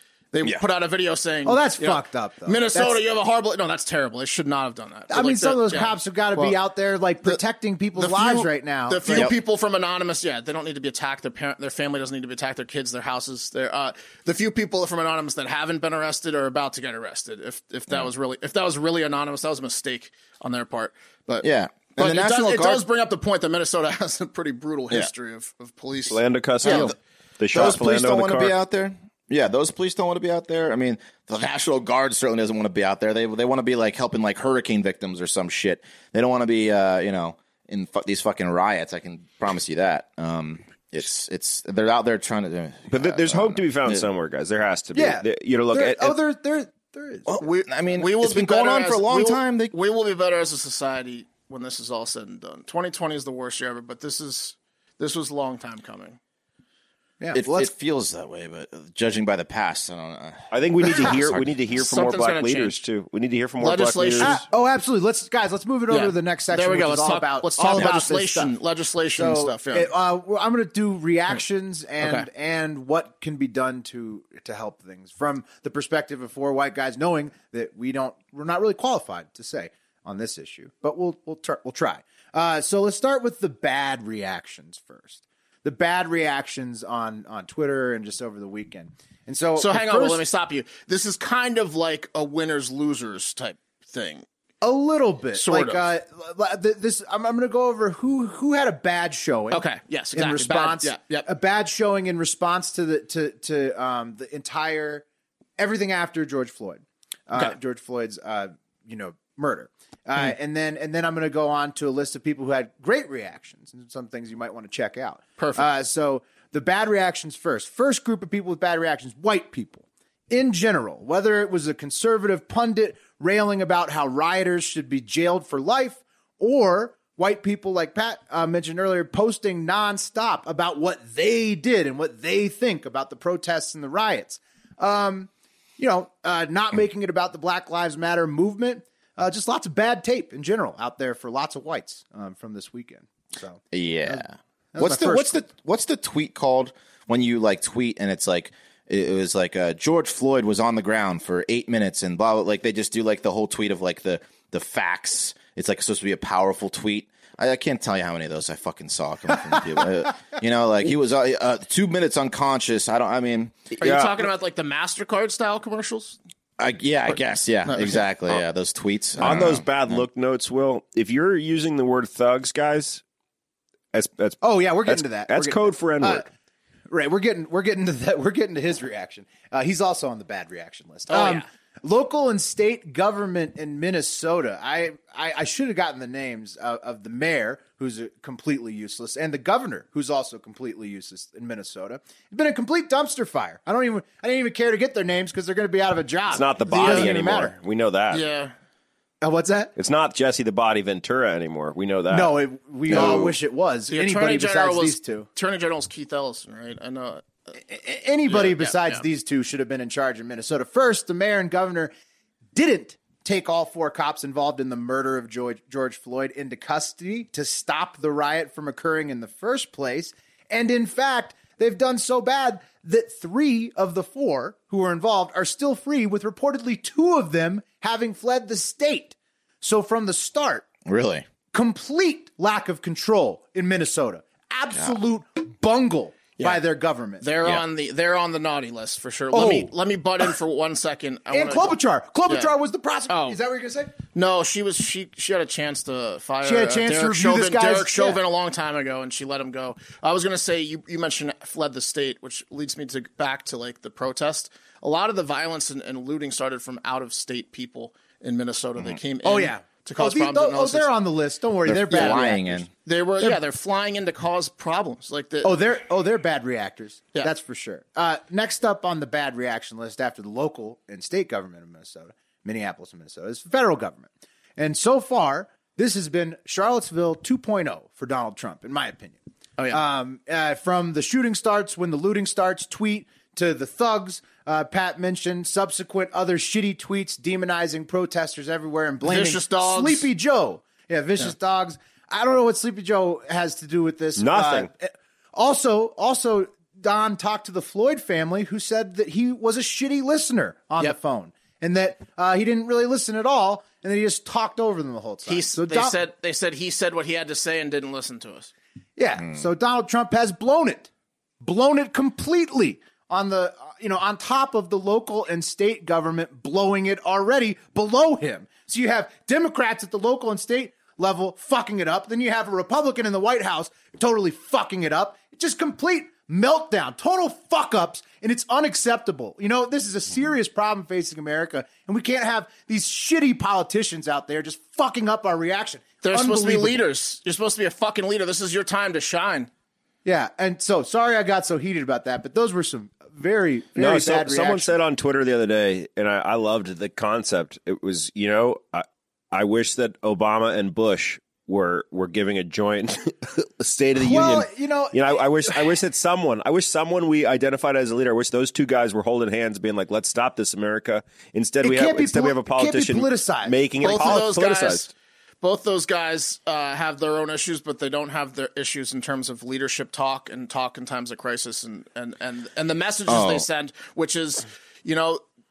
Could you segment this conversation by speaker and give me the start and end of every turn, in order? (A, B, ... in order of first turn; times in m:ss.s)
0:00.3-0:06.6 A
0:01.4-0:03.0 B
0:05.1-0:09.3 B
0:07.9-0:21.4 A
0:21.4-0:22.8 C
0:22.0-0:26.9 A
0:26.1-0:28.5 D
0:26.6-0:26.9 C
0:27.5-0:44.1 C
0:42.9-0:46.2 D
0:44.9-0:47.3 B
0:47.2-0:49.7 C
0:47.4-0:56.2 A
0:57.2-0:57.7 B
0:57.3-1:01.5 C
1:00.5-1:04.4 D
1:01.8-1:02.7 A
1:03.6-1:04.4 A
1:04.2-1:08.5 B
1:05.9-1:09.9 A
1:09.1-1:30.2 B
1:12.0-1:12.3 A
1:29.5-1:34.2 A
1:34.6-1:45.0 B
1:35.3-1:35.8 A
1:39.5-1:41.3 A
1:45.6-2:25.4 B
1:55.4-1:55.7 A
2:23.7-2:43.6 C
2:43.8-2:44.2 D
2:43.8-2:46.2 A
2:46.6-2:50.0 C
2:47.1-2:48.0 A
2:49.2-2:53.0 D
2:53.9-2:56.2 D
2:54.4-2:56.3 B
2:56.9-3:17.5 B
3:01.1-3:01.4 A
3:16.3-3:18.2 D
3:16.7-3:17.1 A
3:18.1-3:18.5 A
3:19.2-3:19.7 B
3:19.8-3:22.3 D
3:22.1-3:25.3 B
3:22.9-3:23.3 C
3:22.9-3:23.3 A
3:23.9-3:27.5 A
3:27.6-3:31.9 B
3:28.3-3:29.0 A
3:32.5-3:50.6 B
3:50.8-3:51.2 C
3:51.5-3:57.2 B
3:57.2-4:02.5 A
3:59.3-4:00.3 B
4:01.3-4:03.9 B
4:03.1-4:03.4 A
4:04.1-4:20.9 A
4:06.4-4:08.2 B
4:19.2-4:22.6 B
4:21.6-4:22.7 C
4:21.9-4:22.2 A
4:22.8-4:25.6 A
4:25.4-4:39.2 B
4:39.7-5:06.0 B
4:49.0-4:50.1 A
4:54.2-4:54.7 D
5:05.2-5:08.5 A
5:09.0-5:10.9 B
5:11.4-5:36.8 B
5:36.0-5:39.5 A
5:40.0-5:44.7 B
5:43.7-6:04.8 D
5:54.0-5:55.6 B
6:01.6-6:04.2 B
6:03.8-6:15.2 A
6:13.1-6:13.4 C